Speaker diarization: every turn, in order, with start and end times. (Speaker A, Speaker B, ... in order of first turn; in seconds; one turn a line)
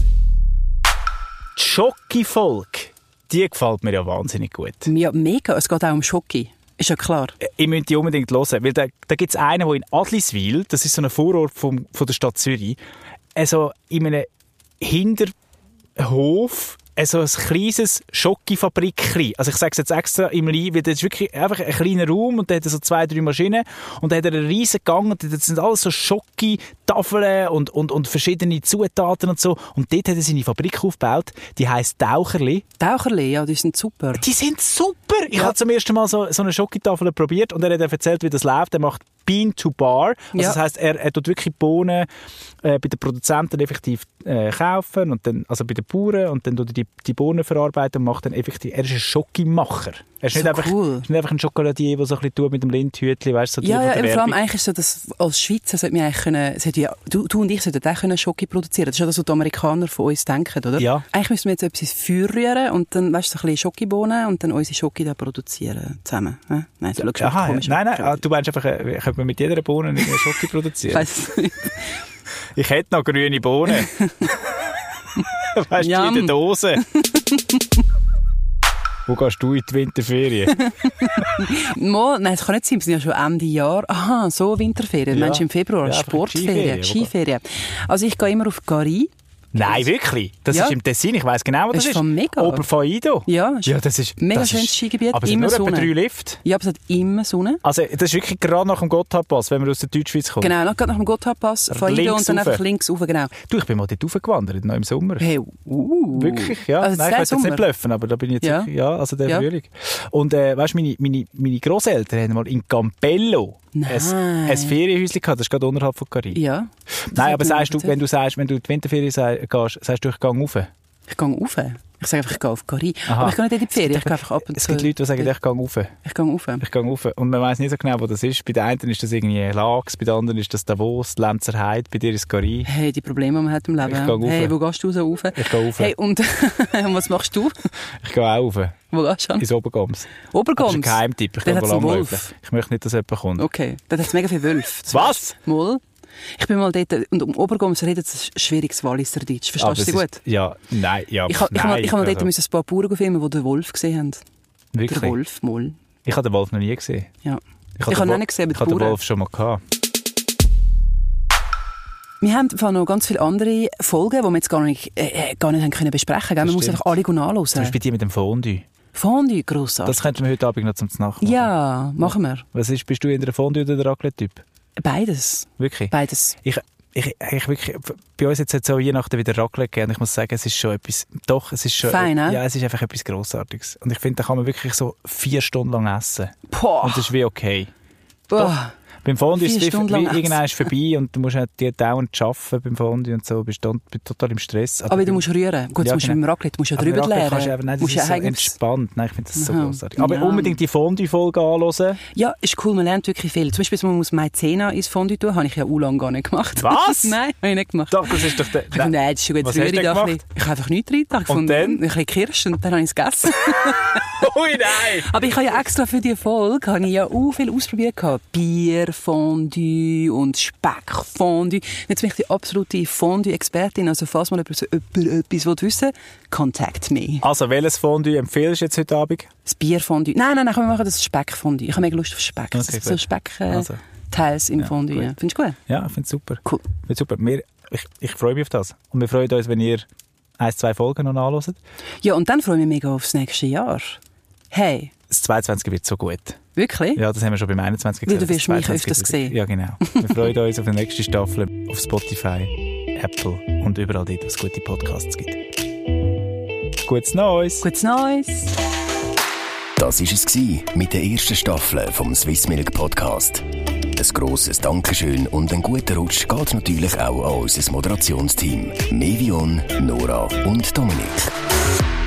Speaker A: 1.6-4.9
Speaker B: 4.8-7.4
Speaker A: 7.4-12.8
Speaker A: 13.3-14.3
Speaker A: 14.8-15.3
Speaker A: 16.0-32.6
Speaker B: 32.8-34.2
Speaker A: 34.2-42.1
Speaker B: 40.3-40.6
Speaker A: 42.6-54.4
Speaker B: 50.3-51.0
Speaker B: 53.6-68.2
Speaker A: 60.8-61.0
Speaker A: 67.0-71.1
Speaker B: 70.0-70.3
Speaker B: 70.9-71.9
Speaker A: 72.5-74.0
Speaker B: 73.7-74.5
Speaker A: 75.3-76.8
Speaker B: 75.8-77.8
Speaker A: 79.1-80.6
Speaker B: 80.5-89.1
Speaker A: 85.1-87.1
Speaker A: 89.5-96.4
Speaker B: 90.5-90.8
Speaker B: 91.7-92.6
Speaker B: 93.2-97.6
Speaker A: 97.6-100.5
Speaker B: 100.4-103.4
Speaker A: 101.7-102.6
Speaker A: 103.4-105.3
Speaker B: 105.2-107.6
Speaker A: 106.1-116.4
Speaker B: 108.4-108.7
Speaker B: 113.7-114.8
Speaker B: 116.3-118.0
Speaker A: 117.1-120.7
Speaker B: 121.1-125.3
Speaker A: 123.0-125.9
Speaker B: 126.0-126.6
Speaker A: 126.6-132.7
Speaker B: 132.6-137.7
Speaker A: 133.8-134.6
Speaker A: 135.3-135.9
Speaker A: 138.0-138.8
Speaker B: 138.9-139.5
Speaker A: 139.4-143.4
Speaker B: 140.2-142.3
Speaker B: 143.4-145.8
Speaker A: 144.9-145.3
Speaker B: 146.4-150.2
Speaker A: 149.6-152.3
Speaker B: 151.2-154.2
Speaker A: 154.7-155.2
Speaker B: 154.9-155.8
Speaker A: 156.0-157.1
Speaker B: 157.2-159.0
Speaker A: 157.8-159.6
Speaker B: 162.2-167.7
Speaker A: 166.4-166.9
Speaker A: 167.5-168.7
Speaker B: 168.9-170.1
Speaker A: 169.8-174.4
Speaker B: 171.2-172.4
Speaker B: 174.8-176.3
Speaker A: 175.6-187.7
Speaker B: 181.8-182.4
Speaker B: 186.5-187.1
Speaker B: 188.3-188.7
Speaker A: 188.3-195.2
Speaker B: 189.3-190.7
Speaker B: 194.9-198.5
Speaker A: 195.8-196.2
Speaker A: 196.8-202.0
Speaker B: 199.3-200.6
Speaker B: 202.1-227.2
Speaker A: 206.6-207.2
Speaker A: 207.9-210.2
Speaker A: 211.3-211.8
Speaker A: 214.1-215.2
Speaker A: 227.2-229.3
Speaker B: 229.4-235.6
Speaker A: 232.5-233.8
Speaker A: 234.6-235.1
Speaker A: 235.7-239.8
Speaker B: 236.4-236.7
Speaker A: 240.4-241.6
Speaker B: 242.0-244.0
Speaker B: 244.5-244.9
Speaker A: 245.1-246.4
Speaker B: 246.6-247.0
Speaker A: 246.9-255.4
Speaker B: 248.1-250.3
Speaker A: 256.8-257.7
Speaker B: 257.6-258.5
Speaker C: 259.8-271.4